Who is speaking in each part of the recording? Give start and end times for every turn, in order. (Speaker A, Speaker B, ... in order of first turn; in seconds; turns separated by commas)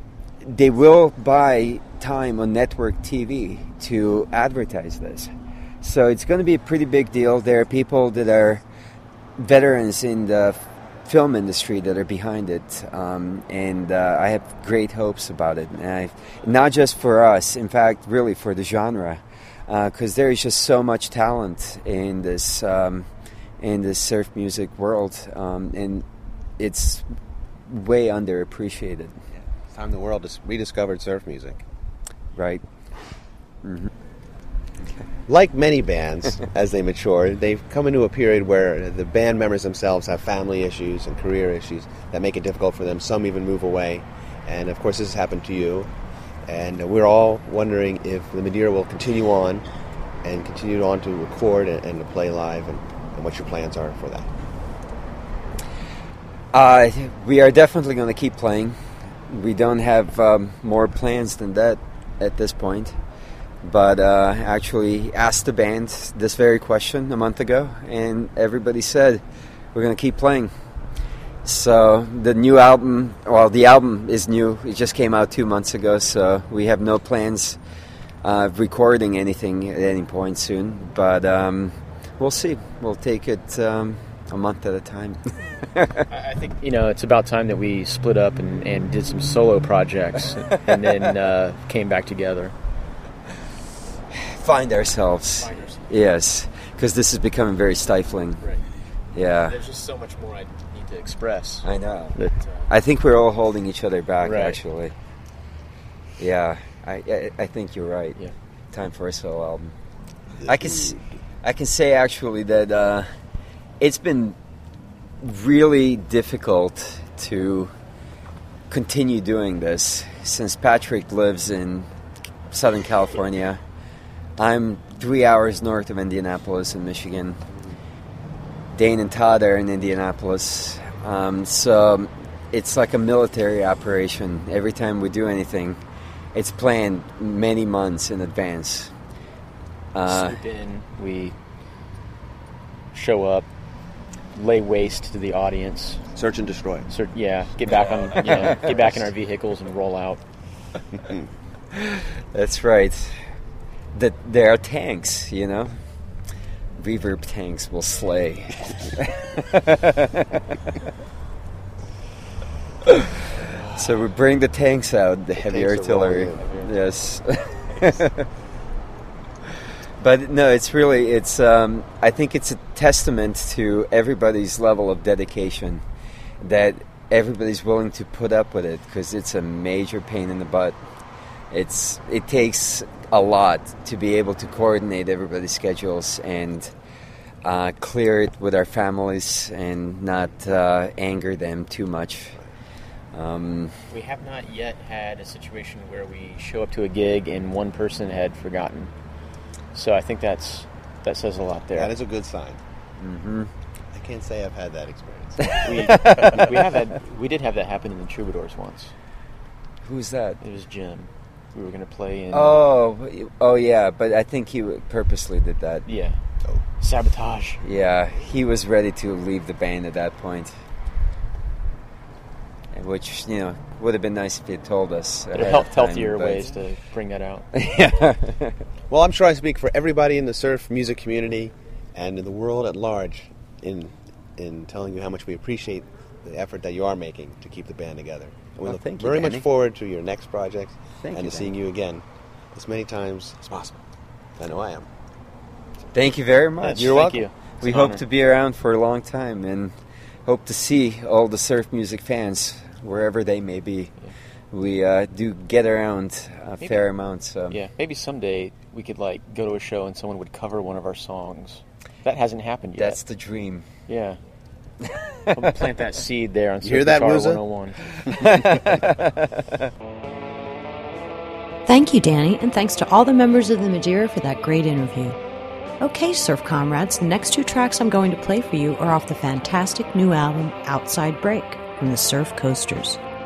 Speaker A: 0.4-5.3, Speaker A: 5.8-8.7, Speaker A: 9.4-23.1, Speaker A: 23.6-26.1, Speaker A: 26.6-27.1, Speaker A: 27.7-29.2, Speaker B: 29.7-31.6, Speaker A: 32.4-32.6, Speaker A: 33.6-33.9, Speaker B: 35.3-45.9, Speaker B: 46.5-49.6, Speaker B: 50.2-54.3, Speaker A: 56.5-58.8, Speaker A: 59.3-63.0, Speaker A: 63.6-69.2, Speaker A: 69.7-70.5, Speaker A: 71.4-77.6, Speaker A: 78.2-86.0, Speaker C: 86.1-92.5, Speaker A: 94.1-98.4, Speaker C: 95.4-95.9, Speaker A: 99.1-99.6, Speaker C: 99.4-102.7, Speaker A: 101.6-102.2, Speaker A: 102.7-104.9, Speaker C: 104.2-104.6, Speaker A: 106.2-108.2, Speaker A: 108.7-109.7, Speaker A: 110.5-113.1, Speaker A: 113.8-114.4, Speaker A: 115.2-117.7, Speaker A: 118.7-121.9, Speaker A: 122.5-123.6, Speaker A: 124.4-127.4, Speaker A: 128.8-135.8, Speaker A: 136.3-138.9, Speaker A: 139.9-140.4, Speaker C: 140.1-141.3, Speaker C: 142.9-143.5, Speaker C: 144.3-146.0, Speaker B: 146.2-146.9, Speaker C: 146.9-150.2, Speaker A: 148.2-148.6, Speaker A: 151.7-153.2, Speaker A: 153.9-155.8, Speaker A: 156.8-160.7, Speaker A: 162.8-163.2, Speaker A: 163.8-168.2, Speaker B: 165.4-166.5, Speaker A: 170.0-175.8, Speaker A: 176.4-180.8, Speaker A: 181.5-186.7, Speaker A: 187.4-192.4, Speaker A: 193.1-193.8, Speaker C: 193.9-198.9, Speaker C: 199.7-201.9, Speaker B: 201.8-202.6, Speaker A: 203.0-203.5, Speaker B: 203.9-205.6, Speaker A: 205.5-206.5, Speaker C: 205.6-208.9, Speaker A: 209.8-210.4, Speaker C: 210.4-212.6, Speaker A: 212.3-215.9, Speaker C: 215.9-216.2, Speaker C: 216.8-217.6, Speaker A: 217.6-220.6, Speaker A: 222.7-226.5, Speaker C: 225.3-227.5, Speaker A: 227.5-228.6, Speaker B: 228.9-243.8, Speaker A: 238.6-239.5, Speaker A: 241.0-241.5, Speaker B: 244.4-244.9, Speaker A: 245.9-249.7, Speaker C: 246.6-248.0, Speaker A: 250.3-253.9, Speaker A: 254.5-257.6, Speaker C: 257.5-263.0, Speaker A: 262.8-263.7, Speaker C: 263.9-264.2, Speaker A: 264.8-265.5, Speaker C: 265.3-268.3, Speaker B: 266.6-267.4, Speaker A: 268.1-269.7, Speaker D: 271.7-275.2, Speaker D: 275.8-283.0